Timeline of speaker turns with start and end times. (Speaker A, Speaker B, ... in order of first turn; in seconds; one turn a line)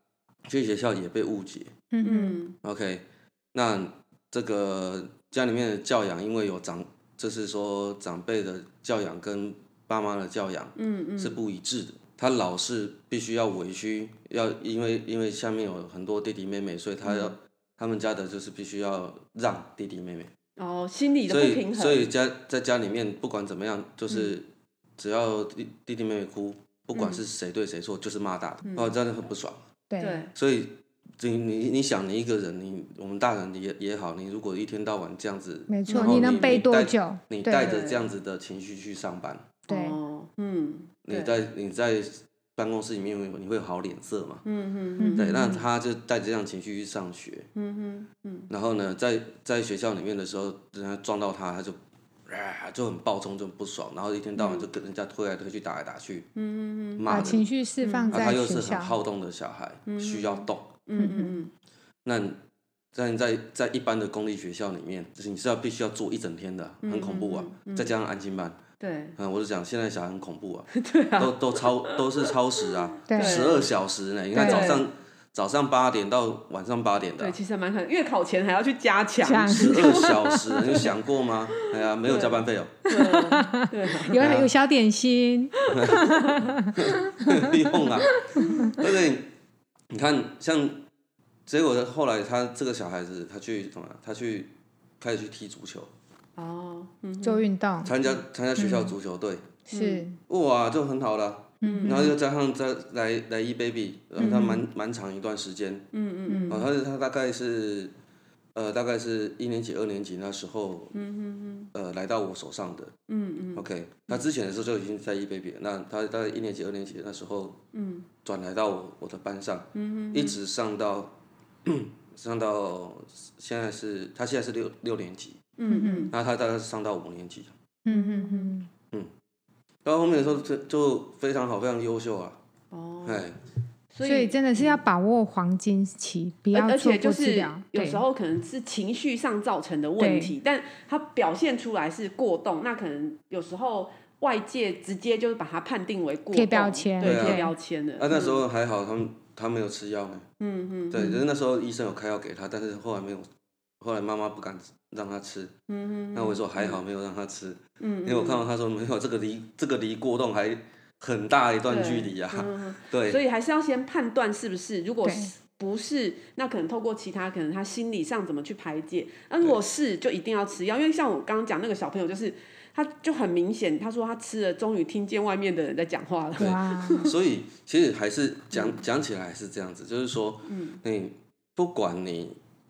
Speaker A: 0.5-1.8
Speaker B: 1.9-2.4
Speaker C: 2.0-2.6
Speaker A: 2.6-20.3
Speaker C: 10.8-11.4
Speaker C: 17.1-17.3
Speaker C: 20.6-22.1
Speaker A: 21.3-24.5
Speaker A: 25.0-29.6
Speaker C: 26.9-27.2
Speaker C: 28.6-28.9
Speaker B: 29.9-30.2
Speaker C: 30.0-30.3
Speaker A: 30.4-39.5
Speaker B: 35.7-37.3
Speaker C: 35.9-36.6
Speaker C: 37.4-38.1
Speaker C: 39.7-41.4
Speaker B: 39.7-40.0
Speaker A: 41.0-44.4
Speaker C: 44.4-45.6
Speaker B: 45.0-45.6
Speaker A: 45.1-47.5
Speaker C: 47.5-48.5
Speaker A: 48.5-56.3
Speaker C: 54.4-54.6
Speaker C: 56.4-57.1
Speaker A: 57.0-57.5
Speaker B: 57.1-58.9
Speaker C: 57.8-58.2
Speaker A: 58.1-60.7
Speaker C: 59.9-61.5
Speaker B: 61.0-61.4
Speaker A: 62.0-62.4
Speaker A: 62.9-68.6
Speaker C: 66.8-67.9
Speaker C: 68.8-69.2
Speaker A: 69.2-77.4
Speaker C: 70.7-73.7
Speaker B: 73.1-73.6
Speaker B: 74.3-74.8
Speaker C: 74.4-74.9
Speaker C: 77.2-80.8
Speaker B: 79.2-80.9
Speaker A: 79.5-82.8
Speaker C: 82.0-84.2
Speaker B: 82.9-88.8
Speaker A: 84.2-84.5
Speaker C: 85.6-86.5
Speaker A: 85.7-86.1
Speaker A: 86.7-89.3
Speaker C: 88.4-88.7
Speaker A: 89.9-90.8
Speaker A: 91.5-95.9
Speaker C: 96.4-97.5
Speaker B: 97.2-97.9
Speaker A: 97.8-99.6
Speaker B: 98.6-98.9
Speaker C: 99.7-100.1
Speaker B: 99.7-100.2
Speaker A: 100.3-105.9
Speaker B: 101.6-102.1
Speaker C: 101.6-102.1
Speaker C: 104.2-104.5
Speaker B: 104.2-104.6
Speaker C: 105.9-106.7
Speaker B: 106.3-106.6
Speaker A: 106.5-107.9
Speaker A: 108.5-111.0
Speaker C: 110.9-111.7
Speaker A: 111.7-112.9
Speaker C: 113.1-114.2
Speaker A: 113.5-117.6
Speaker C: 117.7-118.1
Speaker A: 118.2-121.1
Speaker C: 119.7-120.4
Speaker A: 121.6-125.5
Speaker C: 125.6-126.1
Speaker B: 125.7-126.1
Speaker A: 126.1-127.5
Speaker B: 127.9-128.7
Speaker C: 127.9-128.6
Speaker A: 129.8-132.4
Speaker C: 132.7-133.3
Speaker A: 133.1-133.4
Speaker C: 133.9-134.8
Speaker B: 134.0-138.0
Speaker C: 136.5-148.4
Speaker B: 140.0-140.4
Speaker B: 146.3-147.5
Speaker A: 147.0-150.3
Speaker C: 150.4-151.2
Speaker A: 150.9-153.3
Speaker A: 153.8-155.5
Speaker C: 155.7-156.8
Speaker A: 156.1-163.2
Speaker C: 157.8-158.4
Speaker C: 161.7-177.1
Speaker B: 165.0-165.3
Speaker B: 176.4-177.1
Speaker A: 176.4-182.4
Speaker C: 180.5-180.8